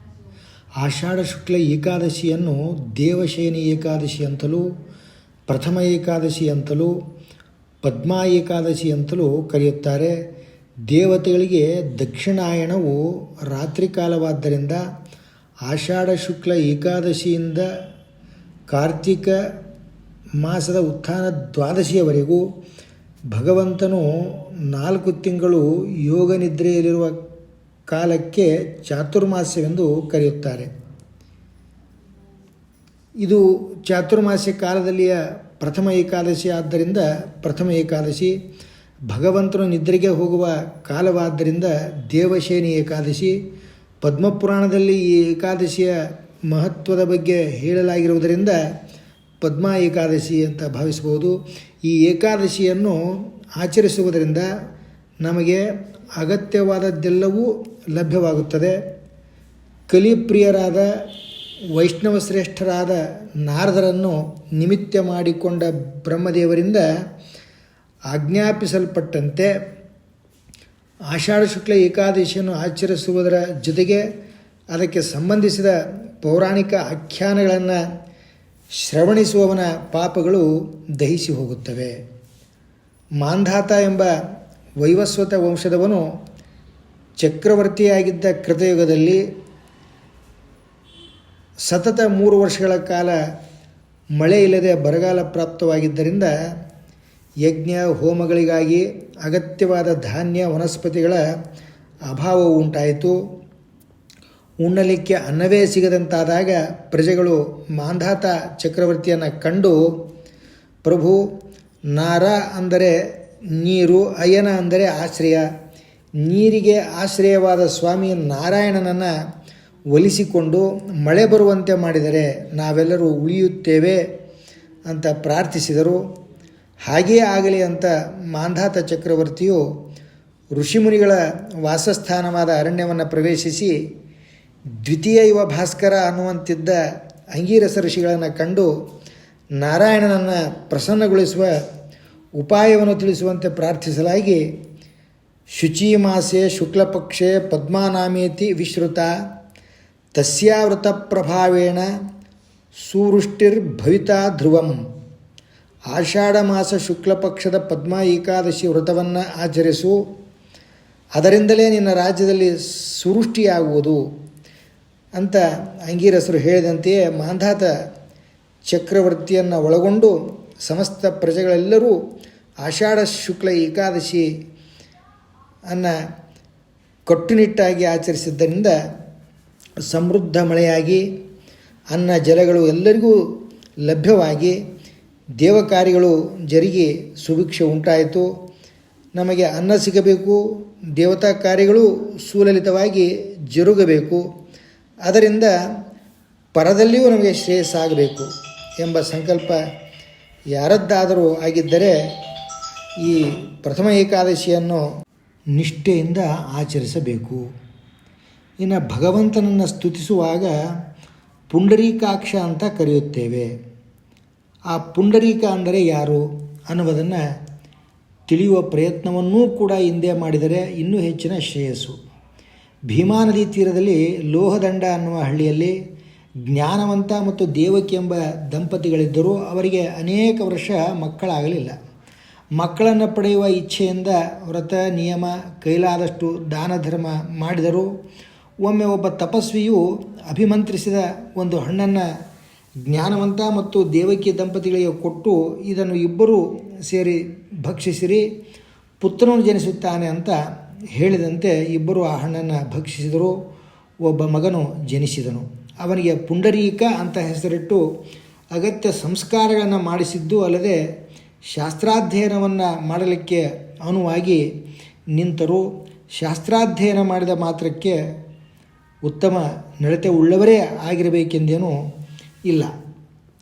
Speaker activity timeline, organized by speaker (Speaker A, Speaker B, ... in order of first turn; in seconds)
Speaker A: 0.8-4.6, 5.5-6.9, 7.8-10.1, 10.9-14.8, 15.7-17.6, 18.7-19.3, 20.4-22.4, 23.3-27.1, 27.9-30.7, 33.2-38.3, 39.1-43.3, 44.0-46.0, 46.5-48.6, 49.4-51.3, 51.9-53.0, 53.6-54.4, 55.2-55.6, 56.2-58.7, 59.9-60.9, 61.7-66.8, 68.1-69.5, 71.1-74.0, 74.7-77.8, 78.8-80.5, 81.0-81.9, 83.2-84.1, 84.8-86.0, 87.2-89.2, 91.7-93.1, 94.2-96.3, 97.4-101.2, 102.1-103.1, 104.6-109.8, 110.8-111.2, 111.9-112.9, 113.5-115.4, 116.2-119.1, 119.9-124.0, 124.9-126.0, 126.9-129.6, 130.6-133.7, 134.8-136.8, 137.3-138.7, 139.6-141.5, 142.4-144.4, 145.5-149.1, 150.1-151.8, 152.8-154.8, 155.9-159.9, 161.2-164.0, 165.2-167.7, 168.7-171.9, 172.6-174.2, 177.1-178.7, 179.9-181.0, 181.9-183.1, 183.8-184.5, 185.4-188.2, 189.2-190.4, 191.0-194.2, 195.1-195.5, 196.5-199.6, 200.5-201.9, 203.0-204.8, 205.6-207.4, 208.6-210.5, 211.5-213.5, 214.7-217.2, 218.3-221.9, 222.9-225.7, 226.5-231.7, 232.6-237.9, 238.6-242.1, 242.9-248.2, 249.0-250.4, 250.9-253.3, 254.0-257.8, 258.5-260.8, 261.5-264.4, 265.1-265.6, 266.2-267.9, 269.0-271.8